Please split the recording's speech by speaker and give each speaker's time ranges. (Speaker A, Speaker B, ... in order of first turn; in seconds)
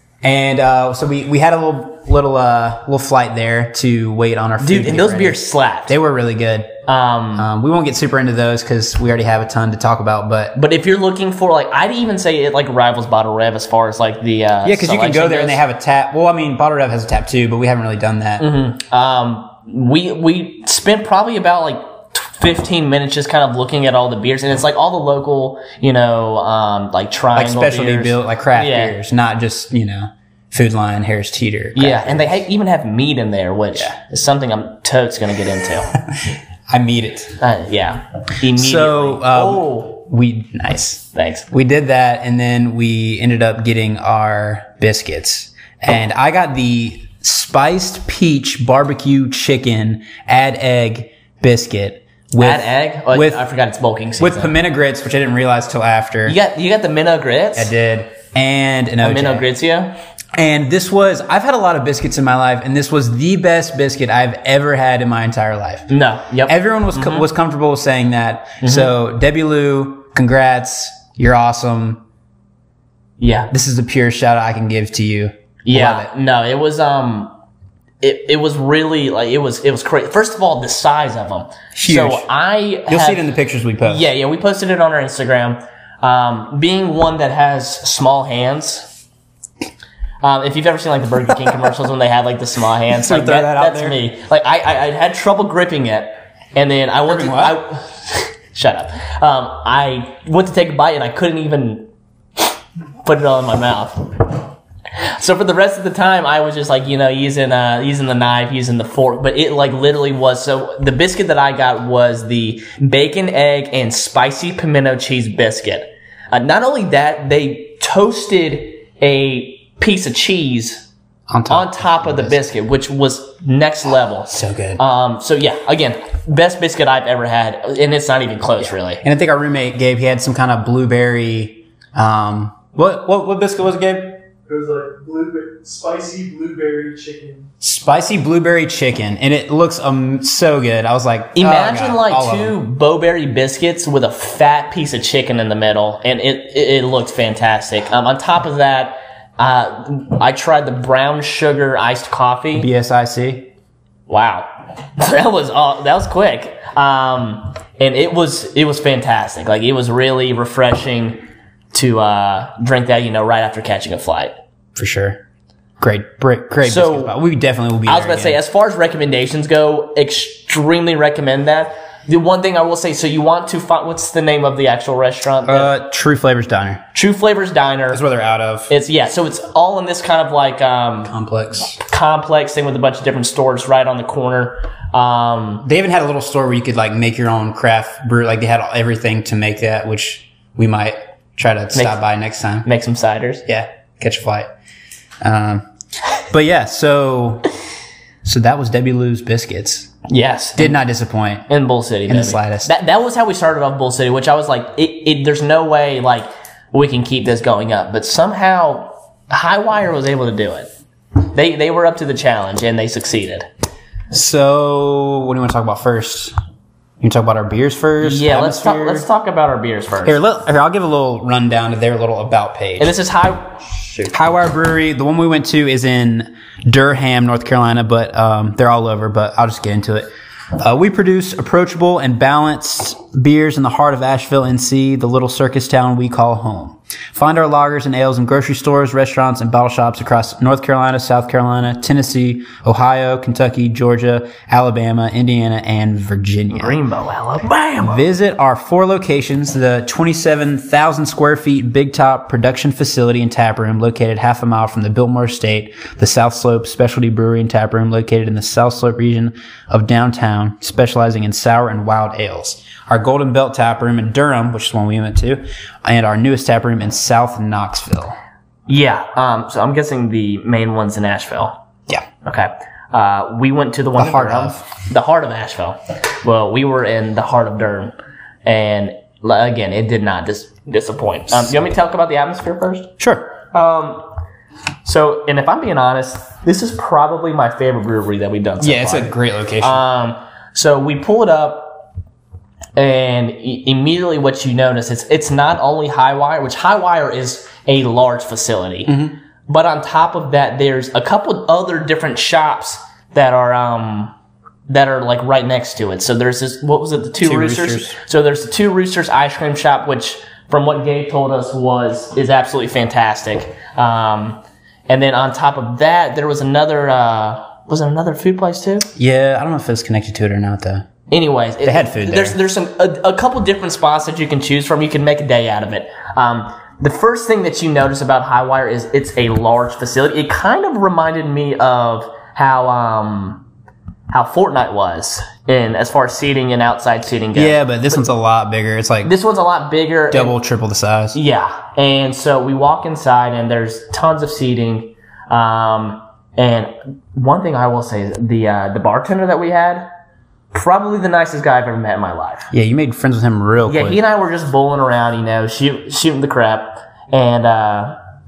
Speaker A: 0.2-6.7, 7.4-10.6, 14.6-18.5, 27.3-32.4, 36.1-37.4, 38.5-53.4, 54.2-56.4, 57.5-59.5, 60.4-65.9, 66.5-72.0, 73.5-76.1, 81.8-82.3, 82.9-84.1, 92.9-94.0, 97.1-97.6, 121.3-122.4, 124.3-124.8, 129.0-134.2, 137.6-142.6, 152.6-153.5, 164.8-165.2, 165.8-168.4, 175.4-176.8, 177.9-178.7, 181.1-181.8, 185.6-192.7, 193.5-194.5, 195.2-195.7, 196.3-197.5, 198.2-199.9, 200.6-201.5, 202.1-202.7, 214.1-216.3, 217.0-219.1, 220.1-222.9, 223.9-246.8, 247.8-268.1, 274.0-274.6, 283.0-283.3, 288.6-289.8, 298.9-299.2, 307.2-308.0, 319.0-320.9, 321.6-322.4, 337.4-339.1, 340.1-341.2, 352.5-354.0
Speaker B: 4.6-6.0, 6.9-7.5, 10.6-15.6, 18.4-29.0, 31.8-35.9, 37.4-40.0, 41.1-41.5, 52.4-54.5, 56.2-57.7, 59.0-60.0, 65.9-67.2, 68.6-68.9, 73.2-73.5, 75.6-77.3, 78.0-83.2, 83.8-88.9, 90.2-101.9, 103.0-104.3, 105.0-120.8, 121.5-129.0, 141.3-152.7, 154.1-154.5, 155.0-161.2, 161.7-164.3, 166.6-167.2, 167.9-175.7, 176.9-178.0, 178.7-181.1, 181.8-185.7, 191.7-192.0, 192.6-193.4, 200.1-200.8, 201.5-210.7, 211.2-213.5, 218.0-220.2, 222.8-223.6, 246.5-248.1, 268.7-271.6, 272.2-282.9, 283.5-284.1, 284.9-291.8, 292.8-304.1, 304.7-318.9, 321.1-333.4, 334.1-338.0, 339.0-340.4, 341.1-349.9, 350.5-352.5, 353.6-358.0
Speaker C: 134.5-137.5